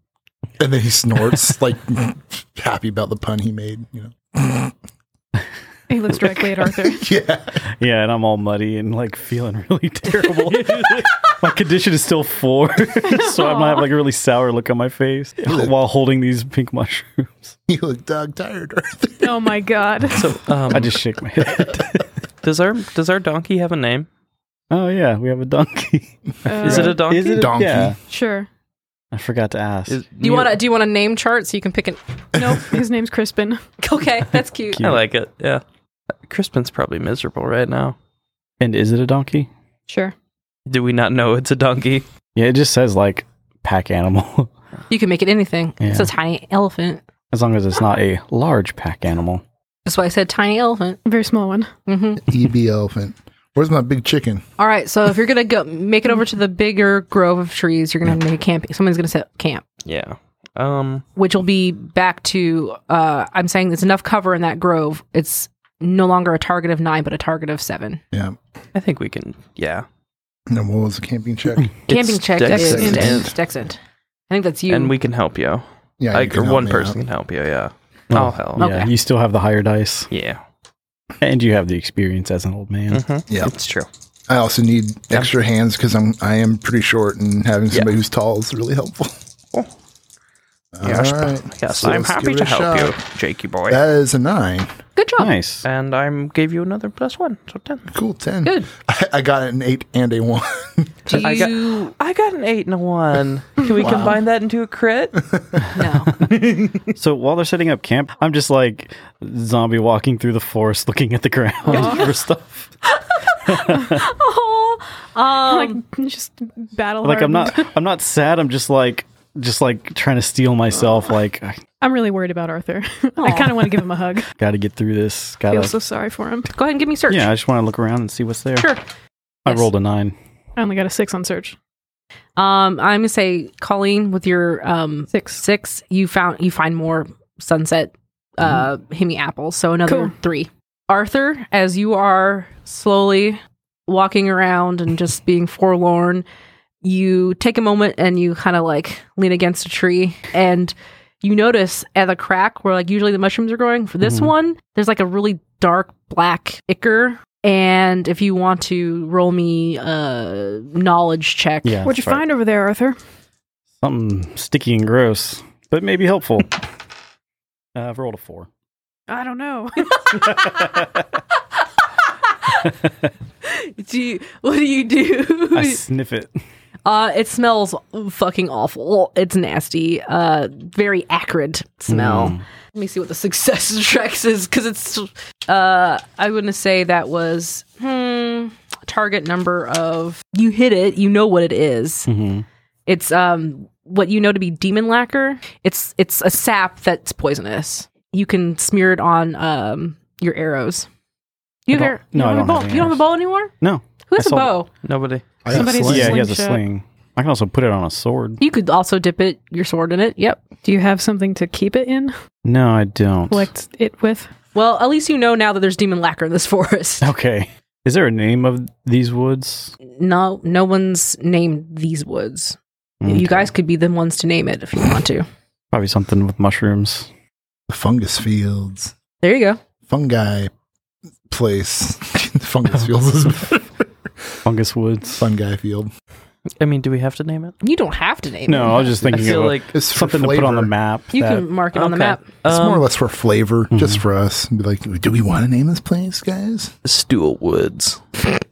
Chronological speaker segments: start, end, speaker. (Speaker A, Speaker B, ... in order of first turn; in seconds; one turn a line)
Speaker A: 0.6-4.7
Speaker B: 5.9-7.1
Speaker A: 6.8-7.6
Speaker C: 7.8-17.6
Speaker B: 13.3-13.8
Speaker A: 17.7-19.5
Speaker B: 19.2-20.3
Speaker D: 20.1-21.0
Speaker C: 20.7-22.1
Speaker D: 22.4-24.1
Speaker C: 24.7-28.0
Speaker B: 26.4-27.5
Speaker D: 26.6-27.4
Speaker A: 26.7-27.9
Speaker B: 28.1-28.5
Speaker C: 29.1-30.0
Speaker D: 29.9-30.6
Speaker E: 30.2-32.0
Speaker A: 32.3-32.6
Speaker B: 32.4-33.6
Speaker E: 33.8-34.9
Speaker C: 34.7-35.0
Speaker D: 34.8-35.6
Speaker D: 36.3-38.0
Speaker C: 38.6-39.5
Speaker B: 39.9-40.1
Speaker D: 40.7-42.0
Speaker C: 42.3-44.5
Speaker E: 44.9-47.0
Speaker C: 45.8-46.1
Speaker C: 47.3-49.4
Speaker E: 49.9-51.0
Speaker B: 51.0-51.7
Speaker E: 51.9-52.2
Speaker A: 52.2-54.4
Speaker E: 54.6-59.6
Speaker D: 59.8-61.0
Speaker E: 61.1-68.0
Speaker A: 68.1-68.4
Speaker D: 68.7-69.8
Speaker A: 70.5-71.7
Speaker D: 71.9-73.3
Speaker E: 71.9-74.9
Speaker A: 72.5-73.3
Speaker B: 72.5-73.1
Speaker D: 74.7-78.7
Speaker A: 76.0-77.0
Speaker C: 78.1-80.1
Speaker E: 78.6-78.9
Speaker D: 80.1-80.4
Speaker C: 81.2-83.0
Speaker D: 82.9-83.9
Speaker A: 84.3-89.1
Speaker A: 90.7-93.0
Speaker D: 90.8-93.8
Speaker A: 93.7-94.7
Speaker E: 95.0-95.3
Speaker C: 95.2-95.7
Speaker D: 95.6-97.9
Speaker A: 97.9-101.3
Speaker E: 101.0-101.9
Speaker D: 101.1-105.2
Speaker A: 103.8-104.2
Speaker E: 105.7-106.1
Speaker C: 107.0-112.7
Speaker E: 111.7-112.0
Speaker B: 111.7-112.1
Speaker E: 112.9-115.8
Speaker C: 113.5-114.1
Speaker B: 115.4-117.7
Speaker C: 117.0-121.6
Speaker B: 121.8-124.3
Speaker E: 123.2-123.8
Speaker C: 124.4-125.8
Speaker B: 125.5-126.5
Speaker E: 126.5-127.3
Speaker C: 127.1-128.7
Speaker C: 129.4-130.1
Speaker B: 130.6-131.6
Speaker E: 132.4-146.2
Speaker B: 135.1-135.4
Speaker B: 139.9-140.1
Speaker E: 146.8-161.8
Speaker C: 154.0-154.3
Speaker C: 161.6-162.2
Speaker B: 161.8-163.0
Speaker C: 163.8-166.6
Speaker C: 167.7-168.5
Speaker B: 169.1-170.3
Speaker C: 170.3-171.0
Speaker E: 173.4-175.8
Speaker C: 175.5-176.3
Speaker E: 176.8-192.1
Speaker C: 181.9-182.4
Speaker C: 192.1-192.4
Speaker E: 192.9-200.9
Speaker E: 201.7-203.5
Speaker C: 201.7-204.6
Speaker E: 204.1-204.7
Speaker D: 204.8-205.2
Speaker A: 205.4-206.2
Speaker B: 205.5-206.6
Speaker C: 205.5-208.4
Speaker E: 208.4-210.4
Speaker B: 210.6-212.1
Speaker C: 212.4-213.5
Speaker B: 213.3-214.3
Speaker E: 214.5-217.1
Speaker C: 217.0-219.7
Speaker E: 219.8-225.2
Speaker C: 223.0-223.4
Speaker C: 225.7-227.1
Speaker A: 227.7-228.9
Speaker E: 229.2-229.6
Speaker A: 229.9-230.5
Speaker A: 231.3-233.9
Speaker C: 234.4-235.3
Speaker A: 235.2-235.9
Speaker D: 236.6-237.6
Speaker E: 237.6-239.2
Speaker C: 238.5-241.5
Speaker D: 239.1-239.7
Speaker A: 239.2-240.7
Speaker E: 241.1-242.2
Speaker D: 241.7-242.9
Speaker A: 242.4-246.7
Speaker D: 246.8-248.2